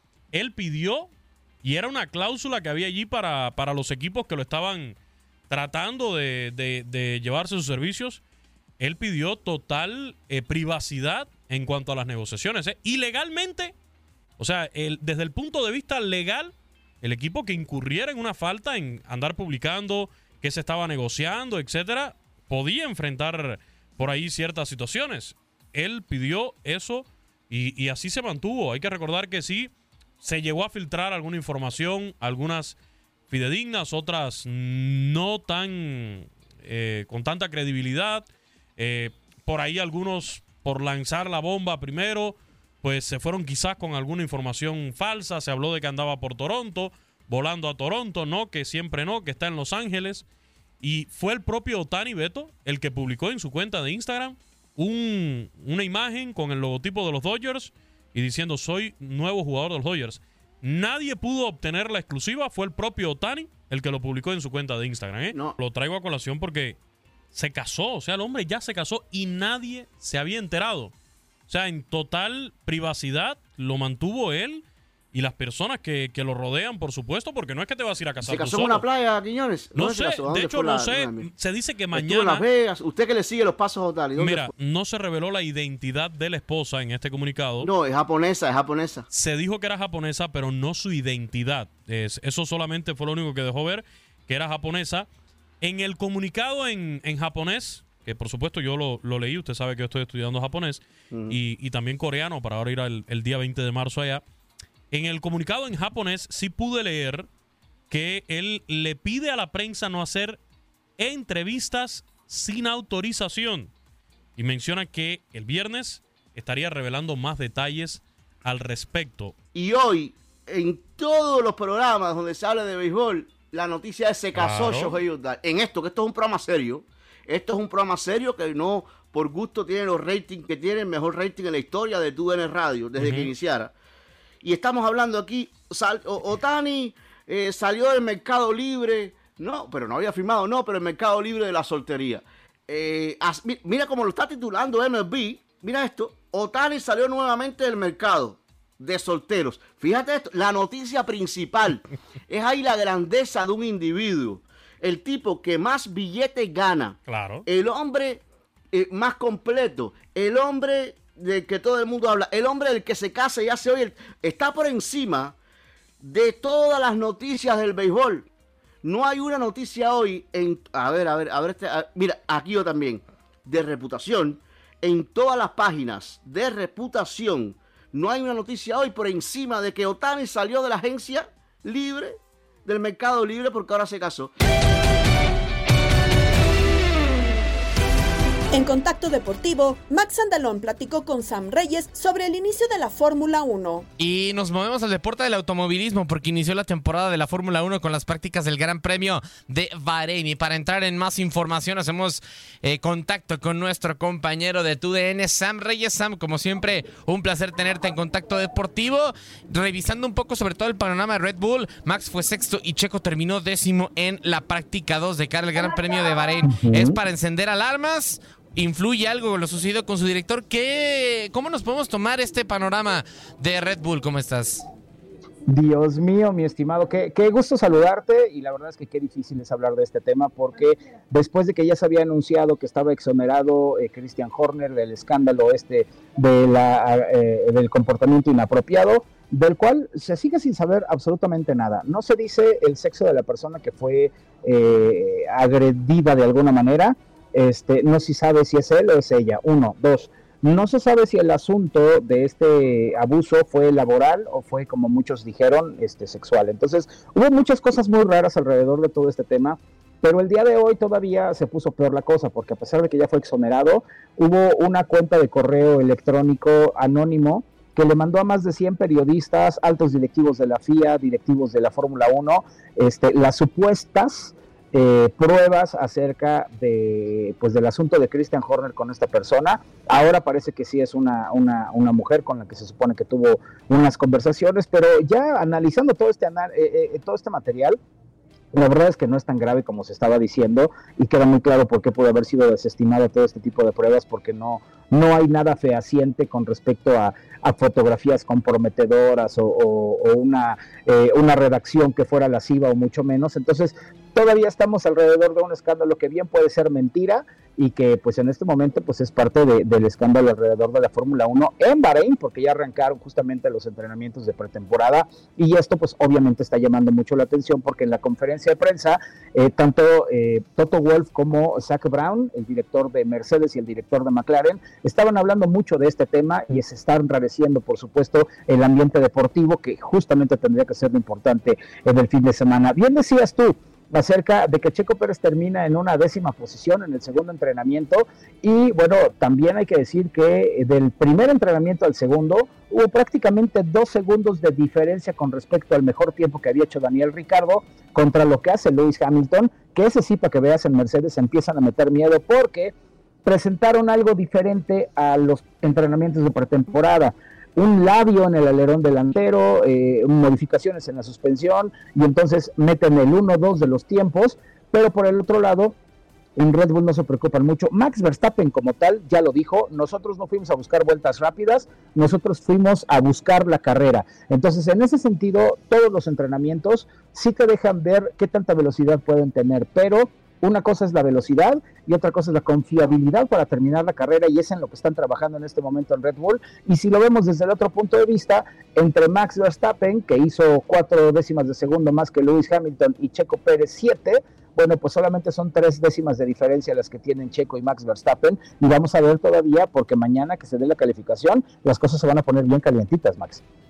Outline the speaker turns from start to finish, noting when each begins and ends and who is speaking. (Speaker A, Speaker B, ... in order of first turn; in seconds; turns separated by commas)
Speaker A: 0.3-1.1, Speaker A: 1.6-5.0, Speaker A: 5.5-8.2, Speaker A: 8.8-13.7, Speaker A: 14.4-32.8, Speaker A: 33.3-50.2, Speaker A: 50.8-66.8, Speaker B: 65.3-65.6, Speaker A: 67.3-70.9, Speaker A: 71.5-78.8, Speaker B: 78.2-81.3, Speaker A: 79.8-82.5, Speaker B: 81.9-84.5, Speaker A: 84.2-87.7, Speaker B: 87.6-89.1, Speaker A: 89.1-95.1, Speaker A: 95.6-104.2, Speaker B: 101.1-101.4, Speaker A: 104.9-107.3, Speaker A: 107.9-110.4, Speaker A: 111.0-113.7, Speaker A: 114.4-119.4, Speaker B: 119.5-133.7, Speaker A: 124.3-125.0, Speaker A: 133.0-133.3, Speaker B: 134.4-158.2, Speaker A: 157.1-157.4, Speaker B: 158.7-165.3, Speaker B: 166.0-168.3, Speaker B: 168.8-184.3, Speaker C: 188.5-193.9, Speaker D: 194.0-224.7, Speaker E: 216.5-217.0, Speaker E: 225.5-287.8, Speaker E: 288.5-352.7, Speaker E: 353.2-365.8, Speaker E: 366.4-403.4